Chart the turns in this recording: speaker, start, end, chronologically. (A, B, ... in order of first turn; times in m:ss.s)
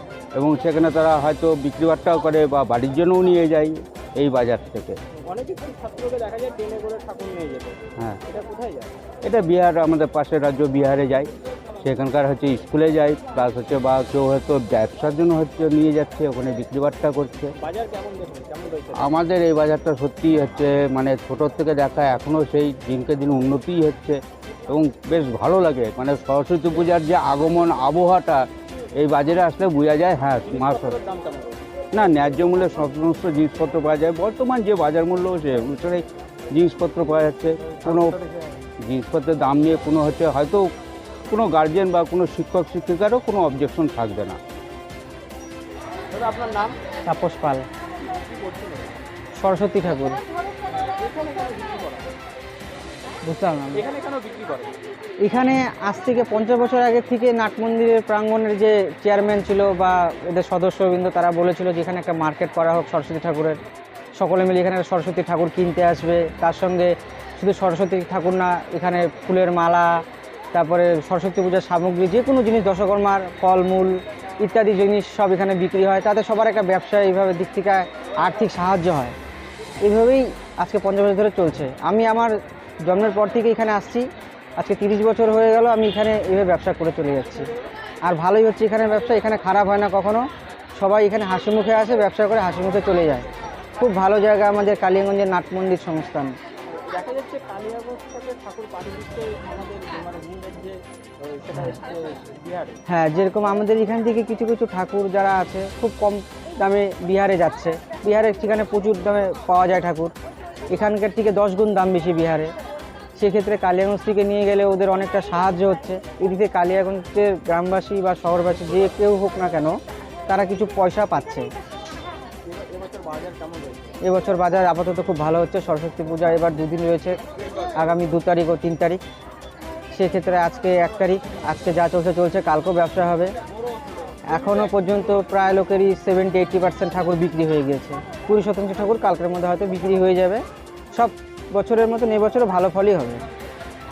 0:00.4-0:05.0 A
0:05.3-0:08.9 B
0:09.2-0:11.3 A
0:11.8-0:17.5 A
0:17.6-0:19.1 B
0:19.0-0:30.9 A
0:30.5-0:31.6 B
0:31.9-0:38.2 A
0:37.8-0:38.6 B
0:38.8-0:40.7 A
0:41.3-0:44.4 A
0:46.1-0:46.8 B
0:47.1-0:47.7 C
0:48.0-0:49.0 B
0:49.4-0:50.2 C
0:50.7-0:52.2 B
0:53.2-0:53.8 C
0:53.8-0:54.7 B
0:55.2-1:03.6 C
1:04.2-1:19.2 C
1:19.8-1:22.3 C
1:22.9-1:24.1 C
1:24.6-1:27.5 C
1:28.1-1:30.2 C
1:30.8-1:33.3 C
1:33.8-1:36.3 C
1:36.7-1:42.8 B
1:42.9-1:50.1 C
1:50.7-1:52.5 C
1:53.2-1:59.8 C
2:00.3-2:01.4 C
2:02.4-2:03.8 B
2:04.1-2:07.2 C
2:07.8-2:09.0 C
2:09.9-2:13.3 C
2:14.3-2:20.4 C
2:21.0-2:23.2 C